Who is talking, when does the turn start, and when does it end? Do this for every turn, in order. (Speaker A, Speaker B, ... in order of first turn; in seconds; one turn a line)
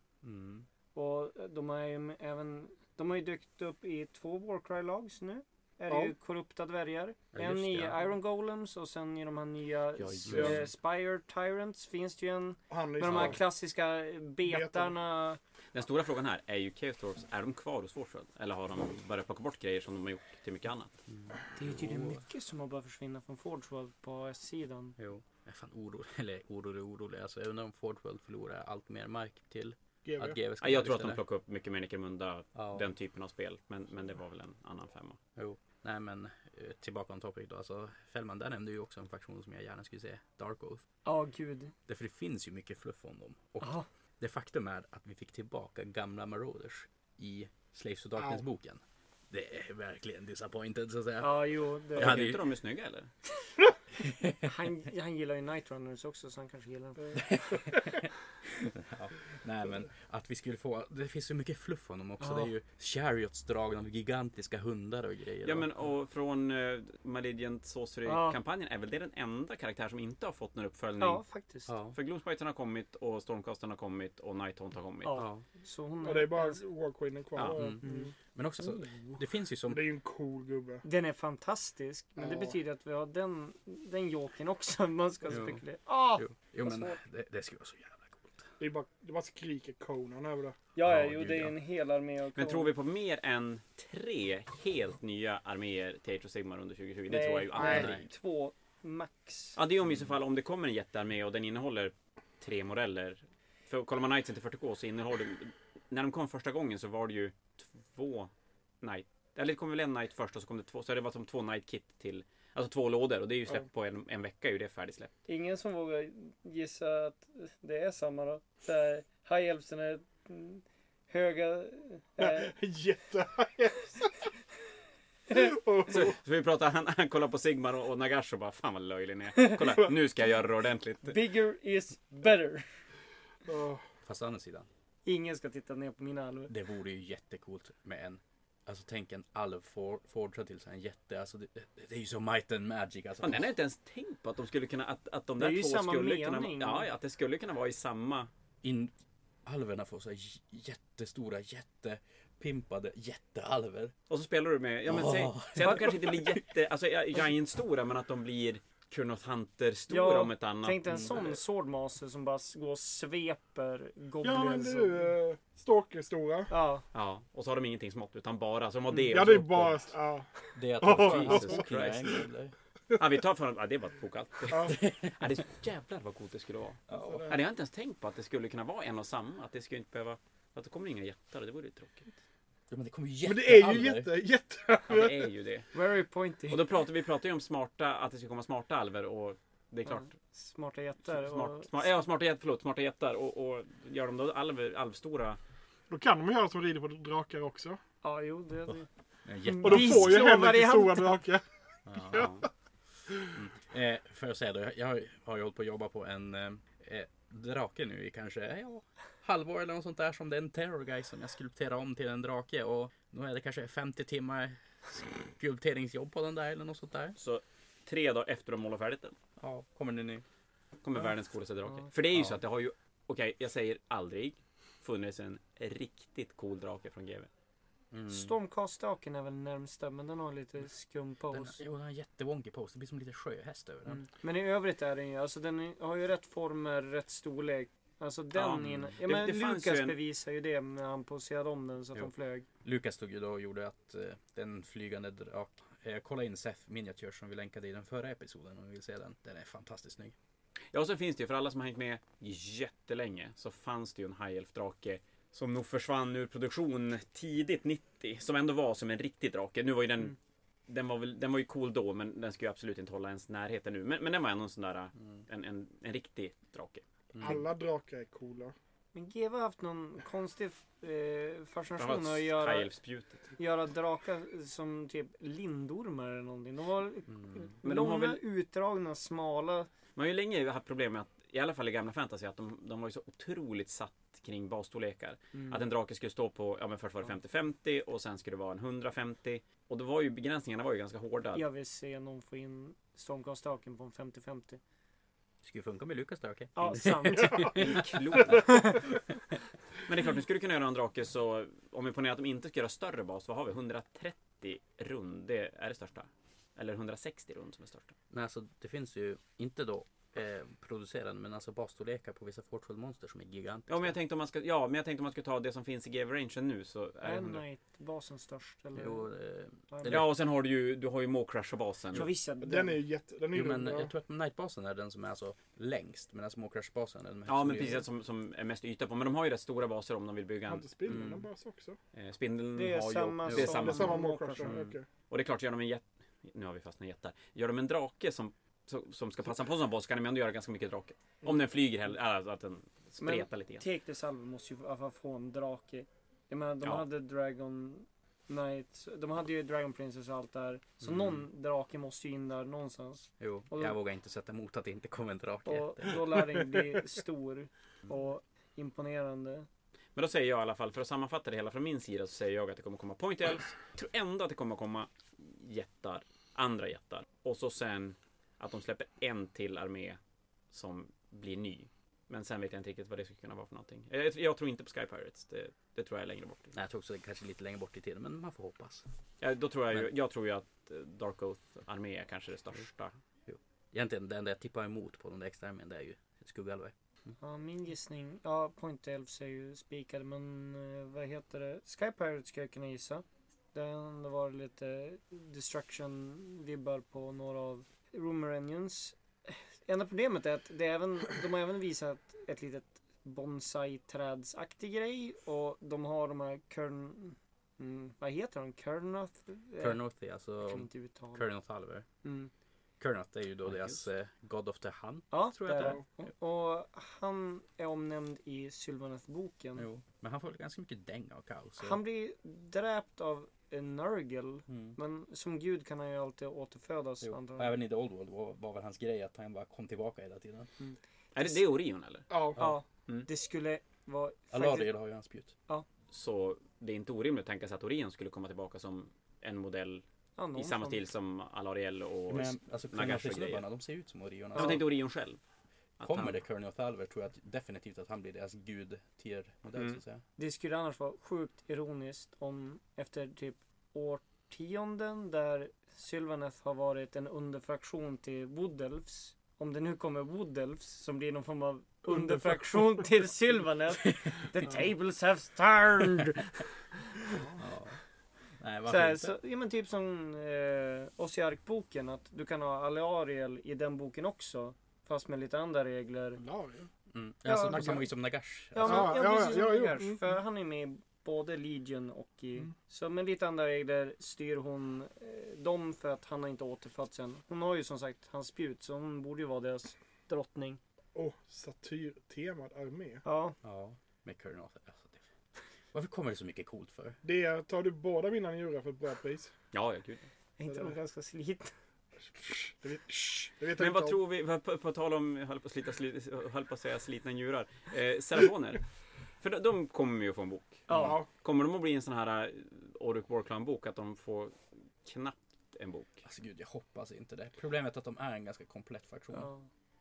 Speaker A: 0.2-0.7
Speaker B: 0.9-15.4
Speaker C: 5.9-6.1
Speaker A: 7.3-8.0
Speaker A: 10.0-10.7
Speaker C: 10.3-10.6
Speaker C: 12.7-13.4
Speaker A: 13.1-13.3
Speaker C: 14.4-14.9
Speaker D: 15.7-20.9
Speaker A: 21.1-22.2
Speaker B: 21.6-24.9
Speaker A: 25.0-31.2
Speaker C: 30.0-30.4
Speaker D: 30.6-35.2
Speaker A: 32.5-32.9
Speaker A: 35.4-40.8
Speaker B: 41.0-41.7
Speaker A: 41.9-52.4
Speaker B: 43.6-43.9
Speaker B: 51.2-52.4
Speaker D: 52.0-53.1
Speaker A: 54.0-54.5
Speaker B: 54.4-57.6
Speaker A: 57.1-65.7
Speaker B: 62.2-62.5
Speaker D: 65.4-71.2
Speaker B: 68.0-68.4
Speaker B: 71.0-71.7
Speaker A: 71.7-72.0
Speaker D: 71.9-75.2
Speaker B: 75.0-76.6
Speaker A: 75.1-75.4
Speaker C: 76.0-78.1
Speaker D: 77.3-77.6
Speaker A: 77.5-77.8
Speaker B: 77.8-78.1
Speaker A: 78.3-79.8
Speaker C: 79.7-80.8
Speaker B: 80.8-87.0
Speaker C: 82.2-82.5
Speaker A: 85.3-85.6
Speaker A: 86.2-88.5
Speaker C: 88.6-90.6
Speaker B: 90.8-92.7
Speaker A: 90.8-91.5
Speaker D: 92.3-98.0
Speaker B: 97.1-99.6
Speaker C: 97.5-97.9
Speaker A: 97.6-98.0
Speaker D: 99.6-108.3
Speaker D: 108.8-115.1
Speaker B: 115.3-122.5
Speaker C: 122.2-124.3
Speaker C: 125.3-126.2
Speaker D: 125.9-131.2
Speaker B: 129.4-129.7
Speaker B: 131.0-132.7
Speaker C: 133.4-133.8
Speaker A: 134.0-134.7
Speaker B: 135.0-136.5
Speaker A: 136.5-143.5
Speaker D: 143.2-148.3
Speaker B: 145.4-146.9
Speaker A: 148.6-148.9
Speaker A: 149.4-153.9
Speaker D: 154.1-161.3
Speaker A: 154.8-156.4
Speaker B: 159.9-165.1
Speaker A: 160.9-161.2
Speaker C: 164.2-166.5
Speaker B: 166.5-166.8
Speaker D: 166.9-169.8
Speaker C: 169.0-172.2
Speaker A: 170.5-172.5
Speaker D: 170.9-172.2
Speaker D: 172.9-182.1
Speaker C: 174.5-174.8
Speaker A: 174.7-175.1
Speaker A: 176.9-177.3
Speaker C: 177.0-177.3
Speaker A: 182.7-184.1
Speaker C: 183.2-185.3
Speaker D: 184.9-185.7
Speaker B: 185.7-186.7
Speaker D: 186.5-190.1
Speaker B: 189.9-191.8
Speaker D: 191.1-195.4
Speaker C: 195.9-197.8
Speaker B: 198.0-198.9
Speaker A: 199.2-200.2
Speaker B: 199.4-201.2
Speaker C: 199.6-201.4
Speaker A: 201.9-202.2
Speaker D: 201.9-202.5
Speaker C: 202.1-202.4
Speaker A: 203.3-217.2
Speaker D: 217.2-219.1
Speaker A: 219.4-220.2
Speaker D: 220.8-227.3
Speaker A: 222.1-222.4
Speaker A: 227.9-228.3
Speaker B: 228.1-231.6
Speaker A: 231.3-234.0
Speaker B: 233.9-242.4
Speaker D: 238.3-239.9
Speaker A: 238.6-238.9
Speaker A: 242.6-250.1
Speaker D: 250.7-260.1
Speaker D: 260.7-267.4
Speaker A: 267.1-267.4
Speaker C: 267.2-268.5
Speaker B: 268.9-272.7
Speaker D: 271.8-273.4
Speaker B: 273.4-279.7
Speaker A: 277.1-277.5
Speaker D: 277.6-278.2
Speaker D: 279.9-291.4
Speaker B: 285.3-285.6
Speaker B: 291.3-294.6
Speaker A: 295.4-298.4
Speaker B: 296.5-297.8
Speaker C: 297.1-297.7
Speaker D: 297.4-298.9
Speaker B: 298.4-298.8
Speaker D: 299.8-307.9
Speaker A: 308.1-313.9
Speaker D: 313.7-317.4
Speaker B: 317.0-319.1
Speaker A: 318.7-320.1
Speaker B: 319.7-320.0
Speaker D: 319.8-322.1
Speaker B: 321.9-322.8
Speaker C: 322.4-323.9
Speaker A: 323.3-327.9
Speaker D: 327.3-331.1
Speaker C: 330.5-331.8
Speaker A: 330.9-331.2
Speaker D: 331.9-334.0
Speaker B: 332.5-334.6
Speaker A: 333.3-333.7
Speaker C: 333.4-334.9
Speaker A: 334.4-334.7
Speaker D: 335.1-343.6
Speaker B: 343.0-353.8
Speaker A: 350.8-351.1
Speaker A: 353.2-356.1
Speaker B: 355.4-359.5
Speaker D: 359.9-370.0
Speaker D: 370.5-376.6
Speaker A: 376.5-378.8
Speaker D: 379.2-382.9
Speaker A: 383.3-386.7
Speaker B: 387.2-409.8
Speaker A: 409.6-411.9
Speaker B: 410.4-411.2
Speaker B: 412.0-412.3
Speaker A: 412.8-415.8
Speaker D: 413.4-413.8
Speaker B: 415.1-419.7
Speaker A: 419.6-421.8
Speaker B: 421.6-427.5
Speaker A: 424.5-424.8
Speaker A: 427.0-430.5
Speaker B: 430.6-431.4
Speaker D: 431.1-432.1
Speaker C: 432.1-432.4
Speaker B: 432.4-434.7
Speaker A: 434.3-435.3
Speaker D: 435.9-439.8
Speaker B: 440.2-440.8
Speaker D: 440.3-443.4
Speaker A: 442.1-444.6
Speaker D: 444.3-445.2
Speaker B: 444.4-444.6
Speaker D: 445.8-446.2
Speaker A: 445.8-450.0
Speaker B: 450.2-466.5
Speaker C: 467.1-467.4
Speaker A: 467.4-467.8
Speaker A: 468.4-469.2
Speaker B: 468.7-476.2
Speaker C: 476.2-476.7
Speaker A: 476.9-478.9
Speaker B: 477.2-477.9
Speaker B: 478.5-490.6
Speaker C: 478.6-480.1
Speaker C: 490.9-493.0
Speaker B: 493.0-493.4
Speaker A: 493.4-495.1
Speaker A: 495.7-497.0
Speaker C: 497.0-499.3
Speaker D: 499.5-500.1
Speaker B: 500.4-501.5
Speaker C: 500.5-500.7
Speaker C: 502.6-504.0
Speaker D: 503.6-508.7
Speaker D: 509.2-516.0
Speaker B: 510.7-511.0
Speaker C: 510.7-511.1
Speaker A: 516.0-519.3
Speaker B: 519.1-519.5